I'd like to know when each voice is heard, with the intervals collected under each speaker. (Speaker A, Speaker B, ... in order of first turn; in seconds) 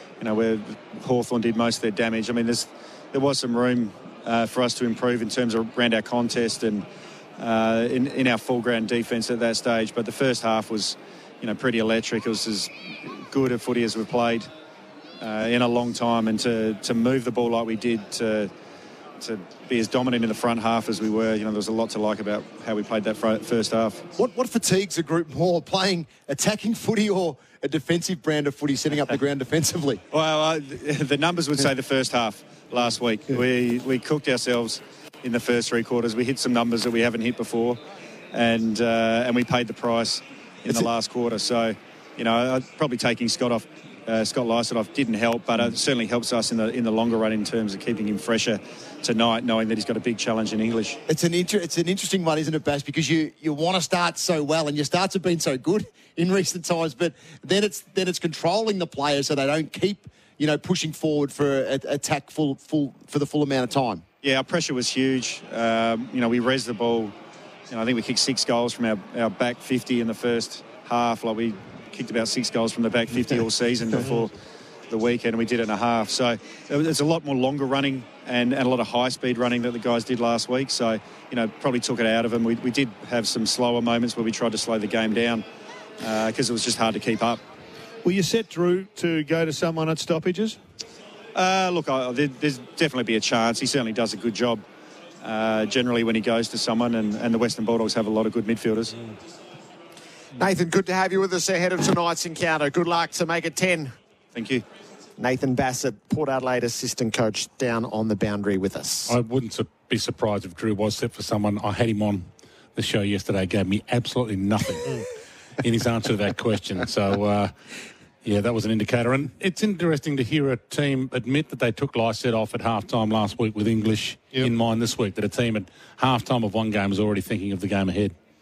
Speaker A: 0.2-6.8, 7.4-14.5, 15.2-18.5, 19.2-24.0, 30.1-37.8, 38.3-51.0, 64.2-67.1, 67.7-74.3, 74.9-85.4, 86.0-87.4, 91.3-94.6, 95.2-99.0, 104.3-104.6
Speaker B: 24.1-30.0, 51.1-64.0
Speaker C: 88.0-90.6
Speaker D: 100.4-103.9, 105.2-109.1
Speaker E: 109.1-115.0, 115.6-117.5, 118.2-128.1